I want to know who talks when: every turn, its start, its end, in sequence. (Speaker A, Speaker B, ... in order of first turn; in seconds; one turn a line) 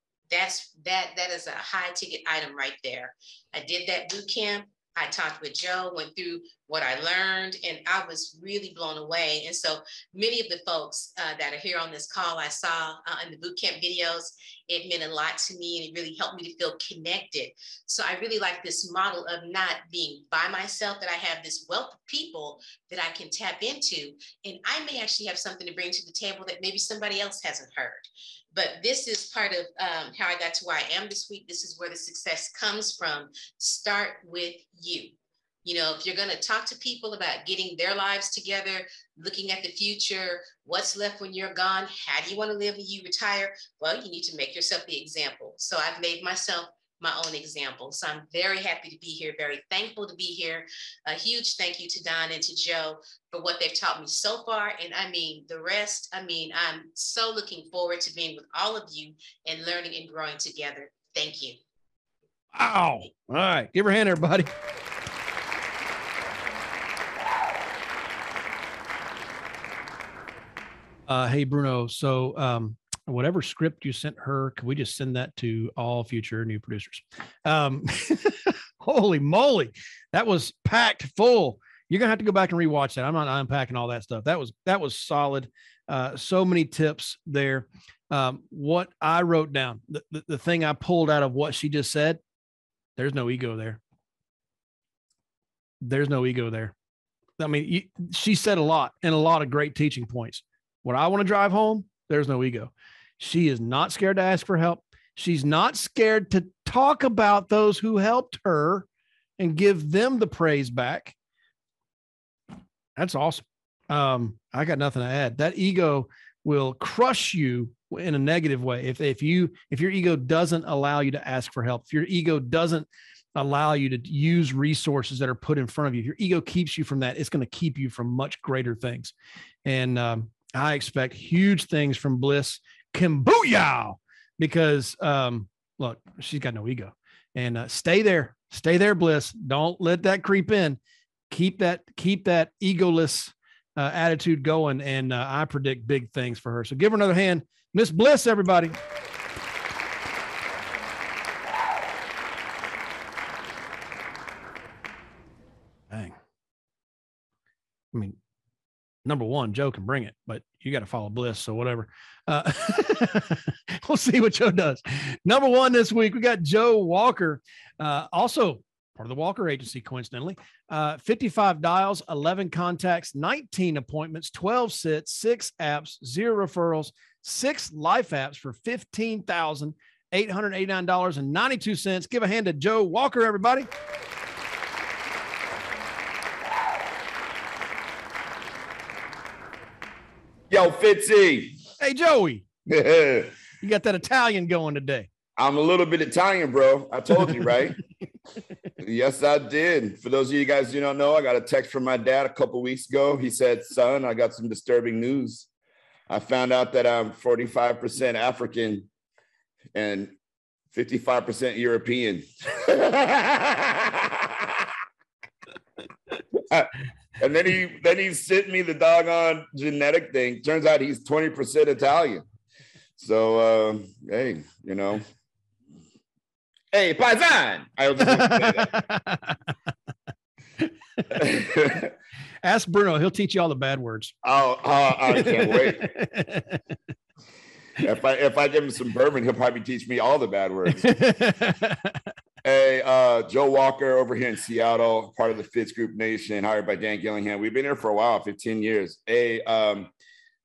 Speaker A: 0.3-61.6
Speaker B: 62.5-64.5
Speaker B: 71.1-92.2
Speaker B: 93.0-93.8
Speaker B: 95.8-96.7
Speaker B: 97.4-108.9
Speaker B: 109.4-111.2
Speaker B: 113.0-129.1
Speaker B: 129.7-140.8
Speaker B: 141.3-148.8
Speaker B: 155.9-156.2
Speaker B: 159.1-183.7
Speaker C: 190.5-191.6
Speaker B: 191.8-192.5
Speaker C: 192.7-193.3
Speaker B: 193.6-195.1
Speaker C: 195.4-197.8
Speaker C: 198.8-205.5
Speaker C: 206.1-208.9
Speaker C: 209.7-210.2
Speaker C: 210.7-214.7
Speaker C: 216.4-222.2
Speaker C: 223.0-225.0
Speaker C: 226.7-228.8
Speaker B: 228.0-229.4
Speaker C: 231.1-231.9
Speaker B: 232.4-234.2
Speaker C: 234.2-235.9
Speaker B: 235.1-236.6
Speaker C: 237.8-240.9
Speaker B: 240.8-242.0
Speaker C: 242.4-249.9